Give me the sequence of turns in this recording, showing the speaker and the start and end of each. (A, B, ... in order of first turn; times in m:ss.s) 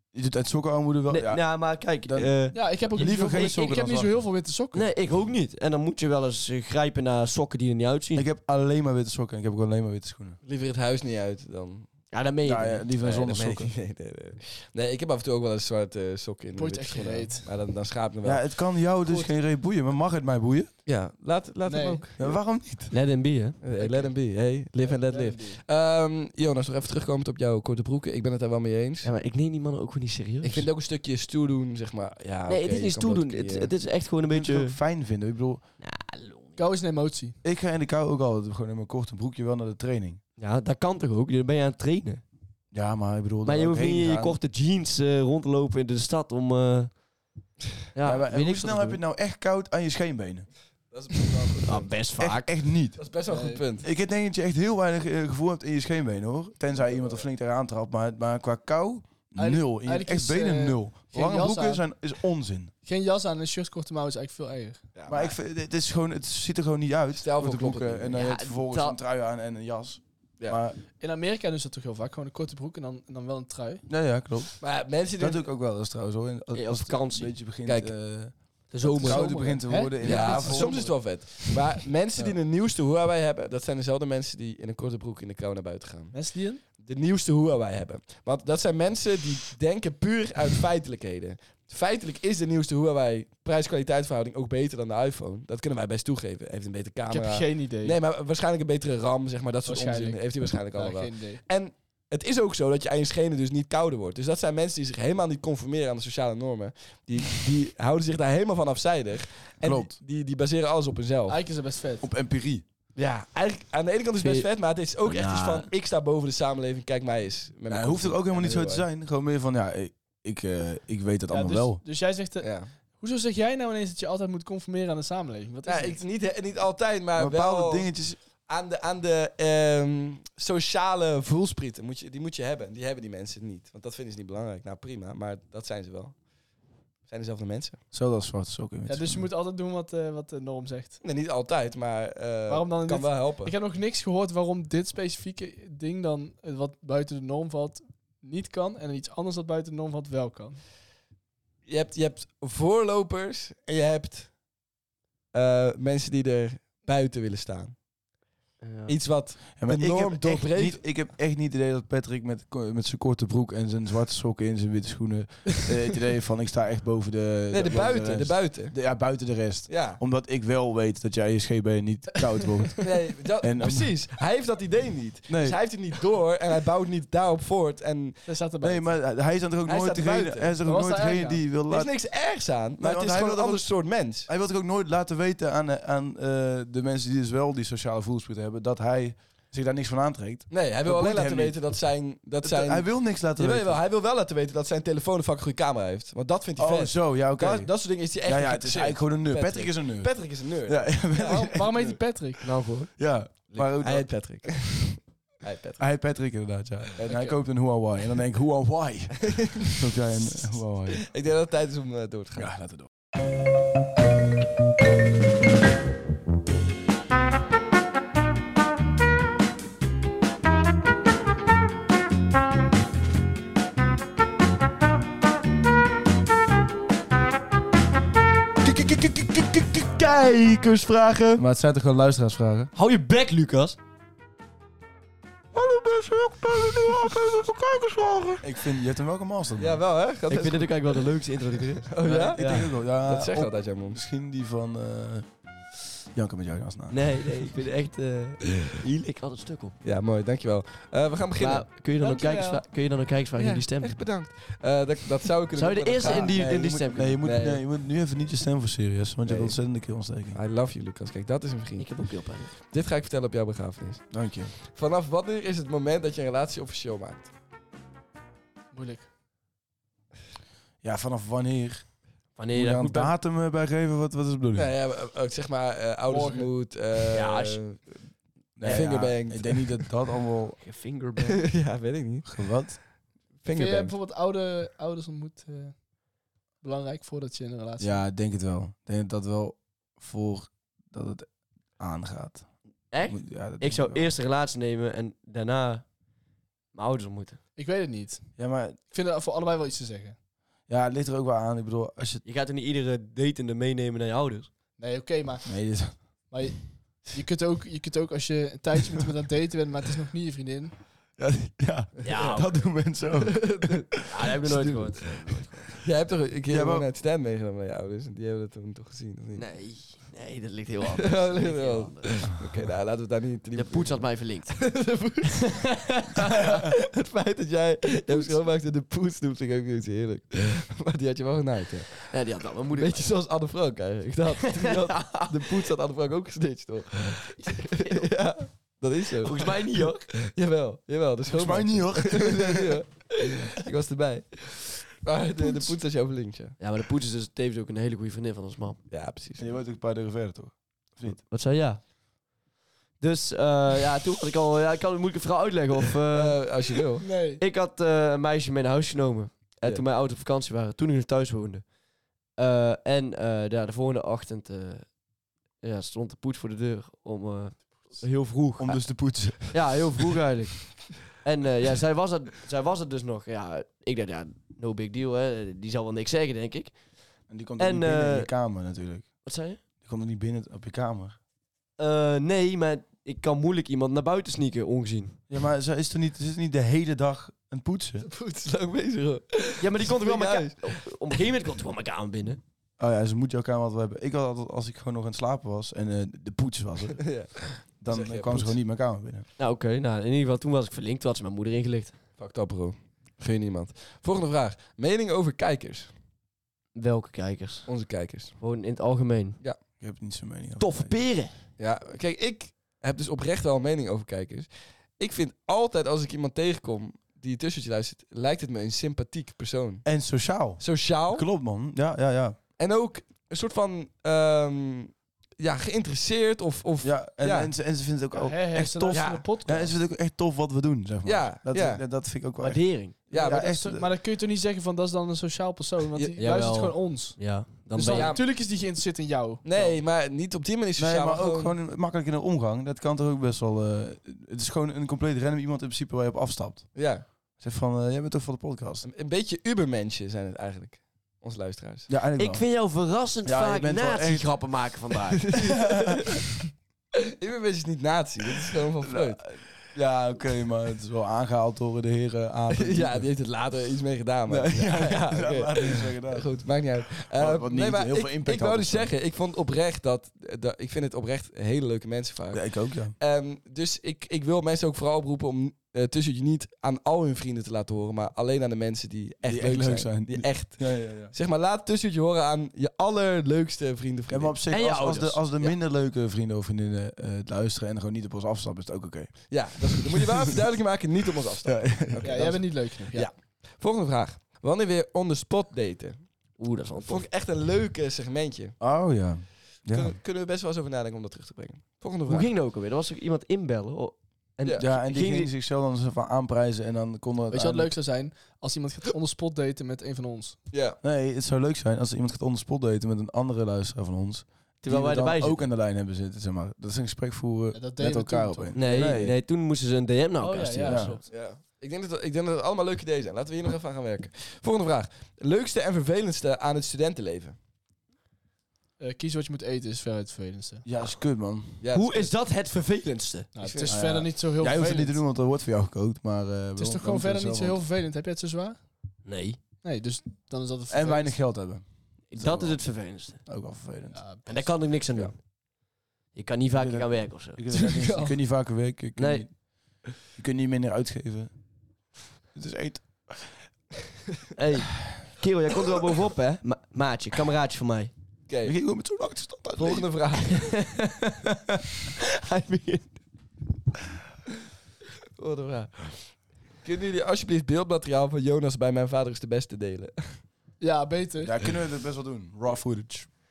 0:00.1-0:04.2 A
0:01.1-0:02.8 B
0:02.5-0:04.9 C
0:04.7-0:08.3 B
0:08.1-0:10.4 A
0:10.4-0:11.9 D
0:12.1-0:13.6 B
0:12.4-0:13.7 A
0:13.0-0:18.5 D
0:16.6-0:17.5 C
0:18.2-0:20.7 A
0:20.9-0:22.4 D
0:21.7-0:22.0 C
0:22.2-0:22.9 A
0:22.9-0:23.6 B
0:23.6-0:29.1 D
0:23.8-0:24.1 C
0:24.8-0:25.6 C
0:29.0-0:30.7 B
0:30.4-0:33.7 D
0:32.5-0:34.8 B
0:34.3-0:35.6 A
0:35.8-0:36.6 B
0:36.6-0:37.4 C
0:37.4-0:40.2 A
0:40.4-0:42.2 B
0:42.7-0:44.4 A
0:43.4-0:47.0 B
0:48.0-0:49.0 B
0:48.0-0:50.5 A
0:50.9-0:52.0 D
0:51.6-0:52.6 B
0:52.2-0:53.0 A
0:53.0-0:53.8 D
0:53.3-0:53.6 C
0:53.8-1:02.7 A
0:56.8-0:57.3 D
0:59.4-1:01.9 C
1:02.8-1:04.8 C
1:05.0-1:05.3 D
1:05.1-1:10.8 A
1:07.2-1:08.2 D
1:08.1-1:09.0 B
1:11.0-1:13.8 C
1:13.9-1:21.1 A
1:14.6-1:15.5 D
1:16.5-1:17.5 B
1:17.6-1:26.2 D
1:18.7-1:19.6 B
1:19.2-1:21.0 C
1:26.1-1:26.6 C
1:26.8-1:51.4 D
1:37.1-1:38.0 C
1:39.7-1:41.4 C
1:49.6-1:49.9 A
1:51.3-1:52.1 C
1:52.0-1:52.6 A
1:53.0-1:58.9 D
1:54.2-1:54.5 B
1:55.0-1:55.7 B
1:57.7-2:01.8 A
2:01.3-2:06.0 C
2:02.4-2:02.7 D
2:05.6-2:07.9 D
2:07.2-2:08.2 A
2:08.5-2:16.2 D
2:17.1-2:17.8 D
2:17.9-2:19.2 A
2:18.9-2:21.0 C
2:21.0-2:23.5 D
2:22.5-2:30.6 C
2:31.7-2:34.3 D
2:35.3-2:37.8 D
2:38.6-2:39.0 B
2:38.9-2:40.8 D
2:39.6-2:54.0 A
2:47.5-2:48.9 D
2:49.7-2:50.0 D
2:52.8-2:58.3 D
2:55.3-2:55.6 A
2:58.3-2:59.0 C
2:58.6-3:01.9 A
2:59.7-3:00.6 D
3:00.6-3:01.4 C
3:01.7-3:04.3 D
3:02.8-3:03.7 A
3:04.2-3:11.6 A
3:10.5-3:21.5 D
3:12.4-3:13.8 A
3:16.6-3:22.0 A
3:21.2-3:22.4 C
3:22.4-3:22.9 B
3:23.0-3:24.1 A
3:23.5-3:25.8 D
3:25.8-3:31.0 A
3:29.2-3:29.7 D
3:31.0-3:32.5 D
3:32.4-3:32.9 A
3:48.8-3:51.4 B
3:51.4-3:52.7 A
3:52.8-3:53.8 B
3:55.6-3:57.3 D
3:56.8-3:58.3 B
3:58.4-3:59.8 A
3:59.6-4:01.1 D
4:00.3-4:02.7 B
4:01.9-4:04.0 D
4:02.1-4:05.3 A
4:06.1-4:07.0 A
4:06.9-4:09.8 B
4:09.8-4:12.0 D
4:11.4-4:14.0 B
4:12.0-4:12.6 C
4:13.4-4:16.6 D
4:15.6-4:17.2 B
4:16.0-4:20.4 A
4:17.2-4:17.6 D
4:19.3-4:19.5 D
4:20.3-4:27.3 D
4:21.8-4:22.6 B
4:24.1-4:24.5 A
4:28.7-4:29.1 C
4:30.8-4:31.9 A
4:32.4-4:33.1 B
4:32.5-4:34.7 A
4:34.6-4:38.1 D
4:36.1-4:36.5 C
4:37.1-4:37.6 B
4:38.6-4:40.6 A
4:38.6-4:39.9 D
4:40.6-4:41.4 B
4:41.2-4:42.7 D
4:42.3-4:42.8 A
4:43.4-4:43.9 D
4:43.5-4:45.8 C
4:46.6-4:48.0 C
4:47.8-4:52.5 A
4:52.9-4:55.9 B
4:53.1-4:54.1 A
4:56.7-4:57.4 B
4:57.6-4:58.2 C
4:58.4-4:58.8 A
4:58.9-5:00.2 C
5:00.7-5:02.2 A
5:02.2-5:04.5 B
5:04.8-5:05.6 C
5:05.4-5:06.0 A
5:06.3-5:10.8 C
5:11.2-5:14.2 A
5:12.0-5:12.6 B
5:12.1-5:12.4 D
5:13.1-5:15.1 D
5:14.1-5:15.8 B
5:15.7-5:19.4 D
5:16.5-5:16.9 A
5:19.4-5:22.3 B
5:20.9-5:25.6 D
5:23.6-5:24.6 B
5:25.2-5:26.5 B
5:26.2-5:32.2 D
5:28.1-5:28.3 B
5:32.1-5:33.3 B
5:32.7-5:46.6 D
5:34.3-5:35.7 B
5:37.4-5:38.1 B
5:39.2-5:40.2 B
5:41.3-5:43.3 A
5:46.6-5:48.8 B
5:48.9-5:49.5 D
5:49.4-5:51.2 A
5:51.2-5:51.8 B
5:53.0-5:56.6 B
5:56.1-5:57.1 D
5:57.0-5:57.4 C
5:57.4-6:01.7 B
6:02.4-6:05.0 B
6:05.6-6:16.8 B
6:08.6-6:09.7 A
6:17.3-6:19.2 A
6:17.6-6:18.3 B
6:19.2-6:19.6 B
6:19.8-6:21.2 A
6:21.8-6:25.2 B
6:25.3-6:28.1 A
6:28.0-6:31.2 D
6:29.6-6:32.4 B
6:32.8-6:39.3 A
6:37.0-6:38.6 D
6:39.4-6:42.0 B
6:42.2-6:45.9 D
6:46.8-6:47.7 B
6:47.7-6:48.4 D
6:48.4-6:49.4 B
6:49.8-6:51.0 A
6:50.6-6:51.4 B
6:51.6-6:59.9 D
6:59.8-7:02.4 A
7:00.6-7:01.3 D
7:02.6-7:07.5 D
7:06.8-7:13.9 A
7:08.1-7:09.8 C
7:08.9-7:09.2 D
7:11.0-7:11.8 D
7:12.4-7:13.0 B
7:13.1-7:13.5 D
7:13.2-7:19.8 C
7:16.2-7:18.1 B
7:17.9-7:18.3 D
7:19.4-7:21.6 D
7:20.8-7:28.9 A
7:26.8-7:27.0 D
7:28.8-7:31.9 D
7:31.9-7:32.5 A
7:32.2-7:35.3 B
7:33.2-7:34.4 A
7:35.2-7:36.1 D
7:37.2-7:39.4 D
7:38.9-7:43.1 A
7:42.5-8:04.6 D
7:44.3-7:46.3 A
7:47.0-7:48.9 A
7:52.3-7:53.0 A
7:59.2-8:01.1 A
8:04.1-8:10.3 A
8:04.5-8:05.2 B
8:09.3-8:16.1 D
8:11.4-8:12.4 A
8:12.0-8:13.1 C
8:16.4-8:17.0 B
8:16.8-8:18.6 D
8:18.6-8:20.0 A
8:19.6-8:22.3 D
8:22.1-8:25.3 B
8:24.6-8:27.7 A
8:27.3-8:30.4 C
8:30.5-8:30.8 D
8:30.8-8:39.2 A
8:34.6-8:35.4 B
8:37.5-8:39.0 C
8:38.5-8:41.0 B
8:40.2-8:41.1 C
8:40.6-8:41.0 A
8:41.1-8:47.4 D
8:48.8-8:50.6 C
8:50.6-8:51.6 A
8:51.6-8:52.1 D
8:51.7-8:53.5 B
8:53.4-8:55.0 C
8:53.4-8:53.7 D
8:53.7-8:57.6 A
8:56.6-8:58.6 C
8:59.0-8:59.4 B
8:59.6-9:01.2 C
9:00.7-9:02.6 A
9:02.1-9:03.2 B
9:03.2-9:04.0 A
9:03.9-9:04.6 C
9:04.3-9:05.2 B
9:06.1-9:07.4 B
9:06.5-9:11.3 A
9:07.5-9:08.2 C
9:09.0-9:09.3 B
9:12.4-9:13.4 A
9:14.4-9:17.9 B
9:18.3-9:18.6 D
9:18.4-9:19.9 A
9:19.6-9:20.6 D
9:20.2-9:23.0 B
9:25.2-9:30.2 D
9:30.6-9:31.4 C
9:31.2-9:33.1 A